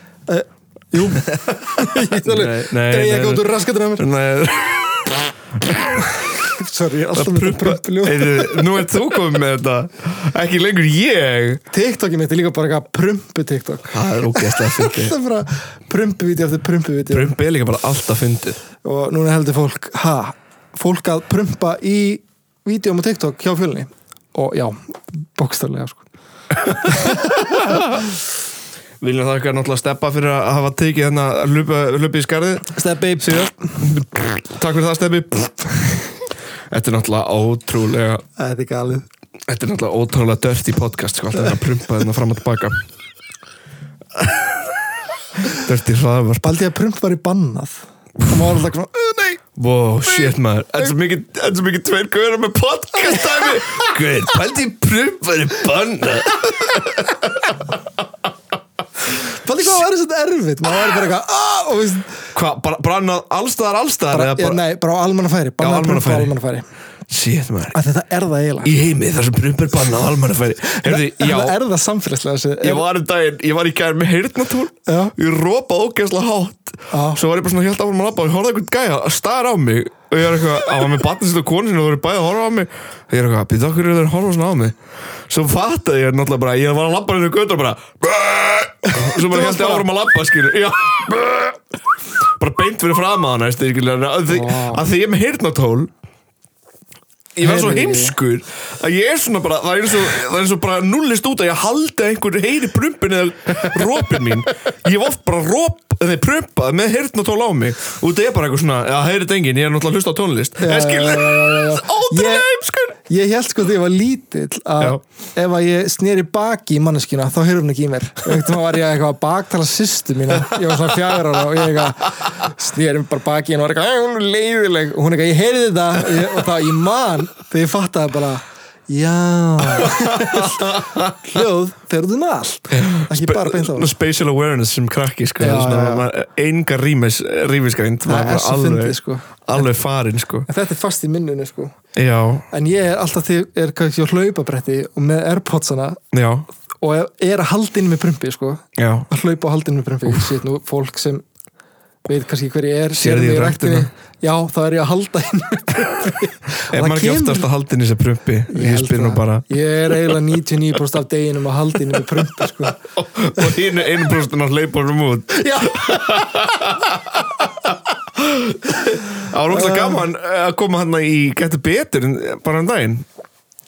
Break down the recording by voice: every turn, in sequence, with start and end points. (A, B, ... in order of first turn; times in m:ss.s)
0:00.3-0:04.1 A
0:01.1-0:06.3 B
0:06.2-0:08.6 A
0:07.1-0:11.6 B
0:11.7-0:17.3 A
0:13.9-0:15.2 B
0:17.1-0:18.6 B
0:18.8-0:26.0 A
0:26.6-0:28.0 A
0:26.7-0:28.0 B
0:29.0-0:36.1 B
0:32.7-0:33.9 A
0:36.7-0:38.2 B
0:38.4-0:39.0 A
0:39.5-0:42.8 B
0:45.5-0:46.5 B
0:46.4-0:49.4 A
0:49.5-0:57.5 B
0:50.0-0:50.9 A
0:59.1-1:02.2 A
1:02.3-1:04.6 B
1:04.1-1:06.7 A
1:05.6-1:06.3 B
1:07.1-1:07.8 B
1:07.7-1:08.7 A
1:08.6-1:11.6 B
1:10.7-1:12.8 A
1:12.6-1:31.6 B
1:14.9-1:15.1 A
1:16.9-1:17.2 A
1:28.9-1:29.9 A
1:32.4-1:35.9 B
1:34.3-1:34.8 A
1:37.4-1:53.0 B
1:37.4-1:38.1 A
1:50.6-1:52.5 A
1:53.1-2:13.9 A
2:09.6-2:11.2 B
2:12.7-2:20.5 B
2:15.4-2:16.1 A
2:18.0-2:19.7 A
2:20.5-2:21.7 A
2:21.9-2:22.4 B
2:22.5-2:26.0 A
2:26.1-2:26.5 B
2:26.8-2:31.2 A
2:28.8-2:29.1 B
2:32.0-2:37.5 A
2:33.0-2:33.9 B
2:36.7-2:40.2 B
2:38.5-2:42.8 A
2:42.8-2:53.0 B
2:45.3-2:46.5 A
2:49.5-2:50.0 A